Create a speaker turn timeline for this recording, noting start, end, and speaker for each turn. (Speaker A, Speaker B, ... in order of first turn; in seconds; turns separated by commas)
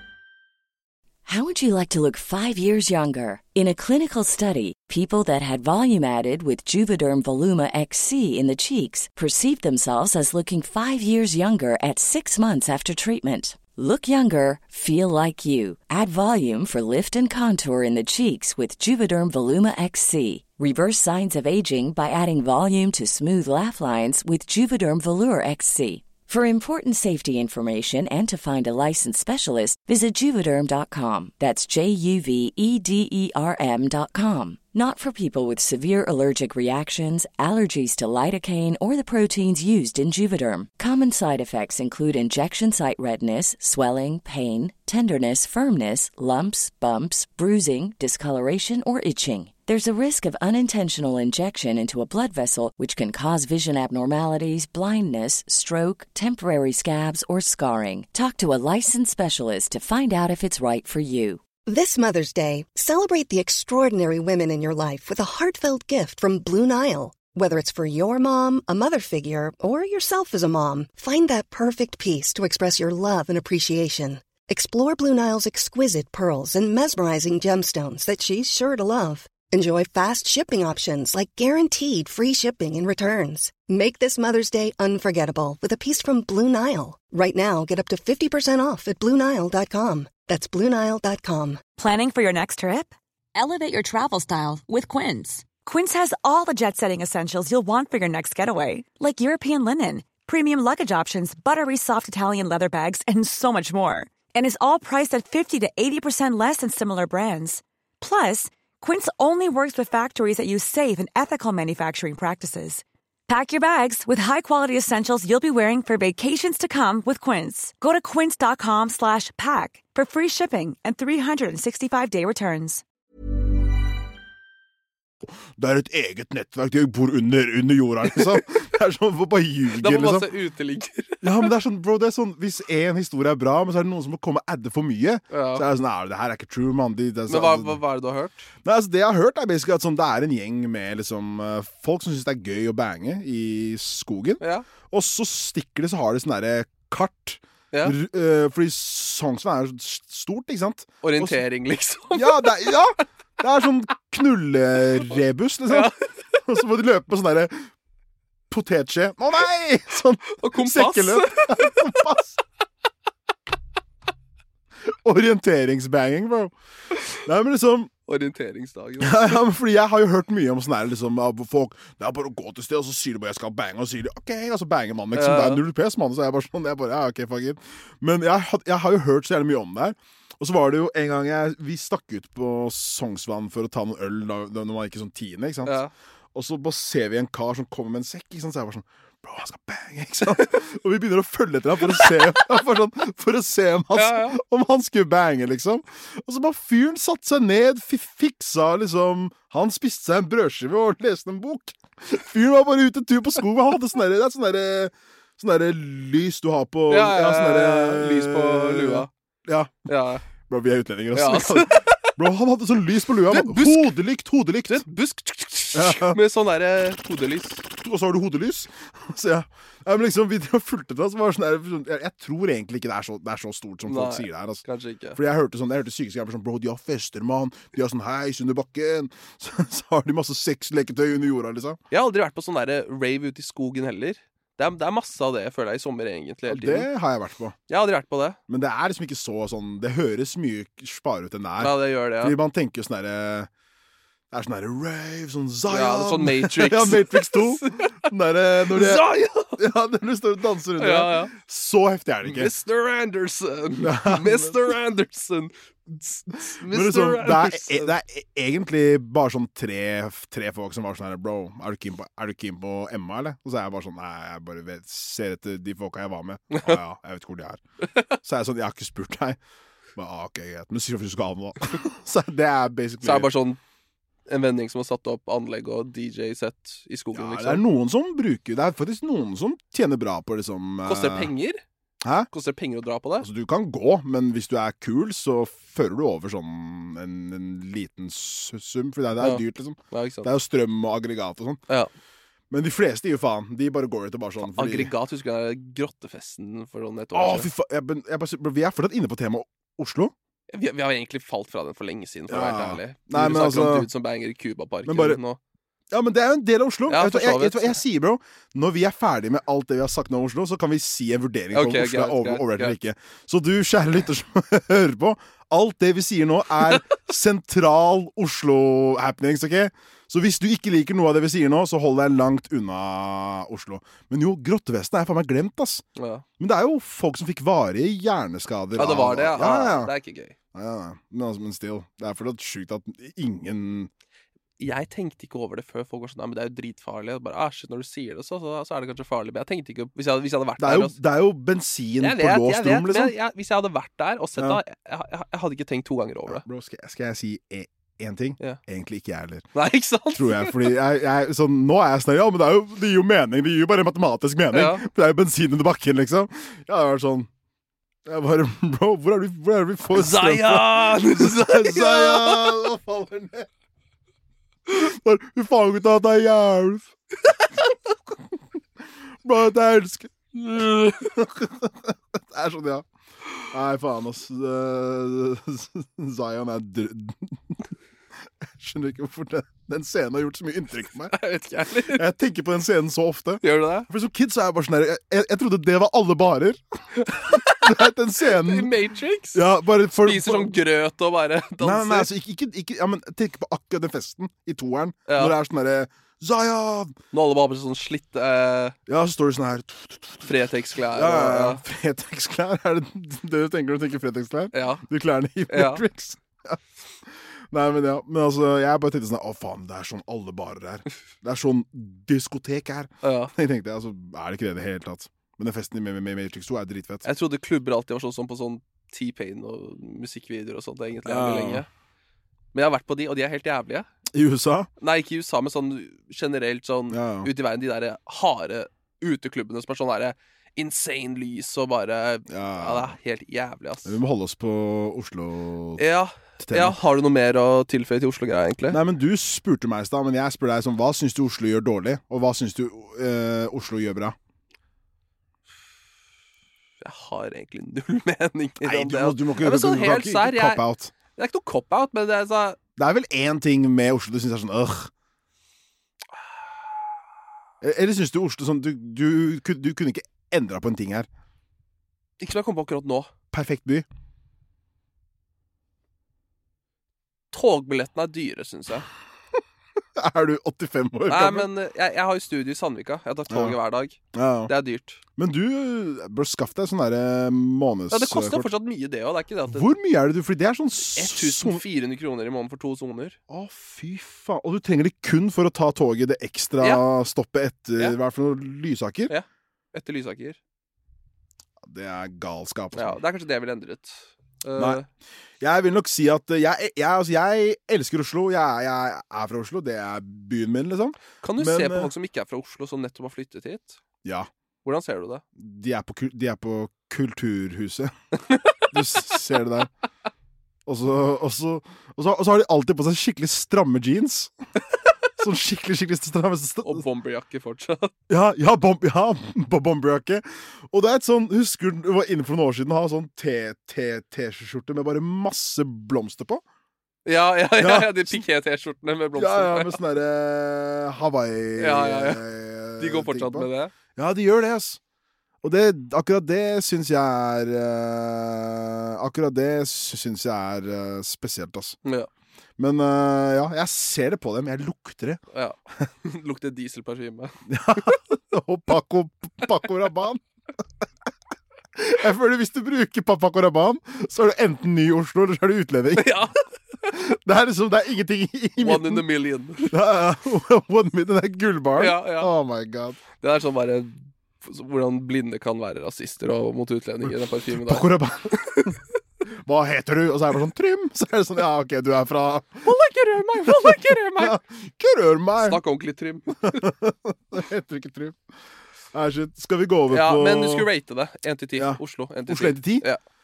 Speaker A: 1.3-61.4, Speaker B: 61.7-91.6, Speaker C: 91.8-122.8, Speaker D: 125.6-130.3, Speaker E: 129.8-131.5, Speaker D: 131.2-137.8, Speaker E: 135.3-135.7, Speaker E: 137.3-138.5, Speaker D: 138.6-151.4, Speaker E: 144.4-144.7, Speaker E: 151.0-152.7, Speaker D: 152.1-155.9, Speaker E: 155.7-156.1, Speaker D: 156.4-157.7, Speaker D: 158.5-162.4, Speaker E: 160.4-161.9, Speaker D: 164.9-166.5, Speaker D: 167.2-167.9, Speaker E: 168.1-169.4, Speaker D: 169.0-185.8, Speaker E: 175.2-175.6, Speaker E: 185.7-185.9, Speaker D: 186.3-209.9, Speaker E: 193.9-194.4, Speaker E: 206.9-209.1, Speaker E: 209.9-210.2, Speaker D: 210.4-214.9, Speaker E: 211.1-212.2, Speaker E: 213.3-213.9, Speaker E: 214.7-217.6, Speaker D: 215.7-216.2, Speaker D: 217.8-224.6, Speaker E: 223.9-225.2, Speaker D: 225.2-231.8, Speaker E: 231.9-236.9, Speaker D: 236.5-237.6, Speaker E: 237.7-238.4, Speaker D: 238.5-243.5, Speaker E: 241.6-242.4, Speaker D: 244.3-252.5, Speaker E: 245.7-248.0, Speaker E: 248.6-249.6, Speaker E: 250.8-251.3, Speaker E: 252.2-257.9, Speaker D: 253.8-254.7, Speaker D: 256.7-267.6, Speaker E: 266.5-266.8, Speaker D: 268.2-269.4, Speaker D: 270.0-273.3, Speaker E: 273.0-273.6, Speaker E: 274.3-277.6, Speaker D: 277.1-281.3, Speaker E: 280.9-281.6, Speaker D: 282.0-282.3, Speaker E: 282.3-283.3, Speaker D: 283.2-291.6, Speaker E: 289.2-290.3, Speaker D: 292.5-294.9, Speaker E: 294.4-297.5, Speaker D: 297.1-300.1, Speaker E: 300.5-305.4, Speaker D: 302.3-303.9, Speaker D: 304.9-305.2, Speaker D: 305.9-325.9, Speaker E: 306.9-307.8, Speaker E: 311.5-312.8, Speaker E: 326.0-326.2, Speaker D: 326.4-329.9, Speaker E: 328.8-330.4, Speaker D: 330.5-333.9, Speaker E: 334.6-341.0, Speaker D: 340.6-343.1, Speaker E: 342.0-346.4, Speaker D: 346.3-349.5, Speaker E: 349.6-350.7, Speaker D: 350.1-357.3, Speaker E: 354.5-354.9, Speaker D: 358.1-363.5, Speaker E: 359.9-362.7, Speaker D: 364.7-366.9, Speaker D: 369.2-372.9, Speaker E: 370.4-371.0, Speaker D: 373.5-377.6, Speaker D: 378.4-381.1, Speaker E: 381.1-382.1, Speaker D: 381.9-388.7, Speaker E: 383.4-383.9, Speaker E: 387.0-389.4, Speaker D: 389.3-390.5, Speaker E: 390.0-392.1, Speaker D: 391.6-397.0, Speaker E: 395.1-395.4, Speaker E: 397.1-398.8, Speaker D: 398.9-400.3, Speaker E: 400.2-401.6, Speaker D: 400.9-417.1, Speaker E: 404.5-404.8, Speaker E: 405.5-405.8, Speaker E: 413.0-413.3, Speaker E: 417.1-421.7, Speaker D: 421.1-421.6, Speaker E: 422.5-423.9, Speaker D: 424.1-424.7, Speaker E: 424.8-434.0, Speaker D: 426.9-427.3, Speaker D: 432.3-433.0, Speaker D: 433.9-435.8, Speaker E: 435.8-438.8, Speaker D: 436.4-436.8, Speaker D: 438.7-444.2, Speaker E: 446.8-452.6, Speaker D: 448.6-450.9, Speaker D: 452.8-454.9, Speaker D: 457.6-461.1, Speaker E: 462.2-463.1, Speaker D: 463.3-463.9, Speaker E: 467.3-468.9, Speaker D: 470.0-471.5, Speaker E: 471.1-475.0, Speaker D: 473.3-473.6, Speaker D: 474.1-474.5, Speaker D: 475.2-478.5, Speaker E: 477.9-479.7, Speaker D: 479.5-481.6, Speaker E: 480.9-483.2, Speaker D: 483.3-489.1, Speaker E: 489.1-490.4, Speaker D: 491.6-493.0, Speaker E: 492.8-494.9, Speaker D: 494.6-494.8, Speaker D: 495.4-501.9, Speaker E: 501.2-503.8, Speaker D: 504.0-504.3, Speaker E: 504.6-505.2, Speaker D: 505.4-507.9, Speaker D: 508.6-509.7, Speaker D: 510.7-514.3, Speaker D: 515.2-516.8, Speaker E: 516.6-517.9, Speaker D: 518.1-526.4, Speaker E: 527.0-529.8, Speaker D: 527.6-528.2, Speaker D: 529.1-534.8, Speaker E: 531.6-532.2, Speaker E: 532.8-533.7, Speaker D: 535.4-541.8, Speaker D: 542.6-545.2, Speaker E: 545.3-547.9, Speaker D: 547.5-550.2, Speaker D: 551.8-556.2, Speaker E: 556.0-556.4, Speaker D: 556.9-559.0, Speaker E: 558.6-559.7, Speaker D: 559.7-563.0, Speaker E: 561.8-562.3, Speaker E: 563.2-568.7, Speaker D: 567.0-568.8, Speaker D: 569.3-572.7, Speaker E: 572.6-574.4, Speaker D: 573.4-575.6, Speaker E: 575.4-576.7, Speaker D: 576.4-578.2, Speaker D: 578.9-580.7, Speaker E: 579.9-583.0, Speaker D: 581.6-582.9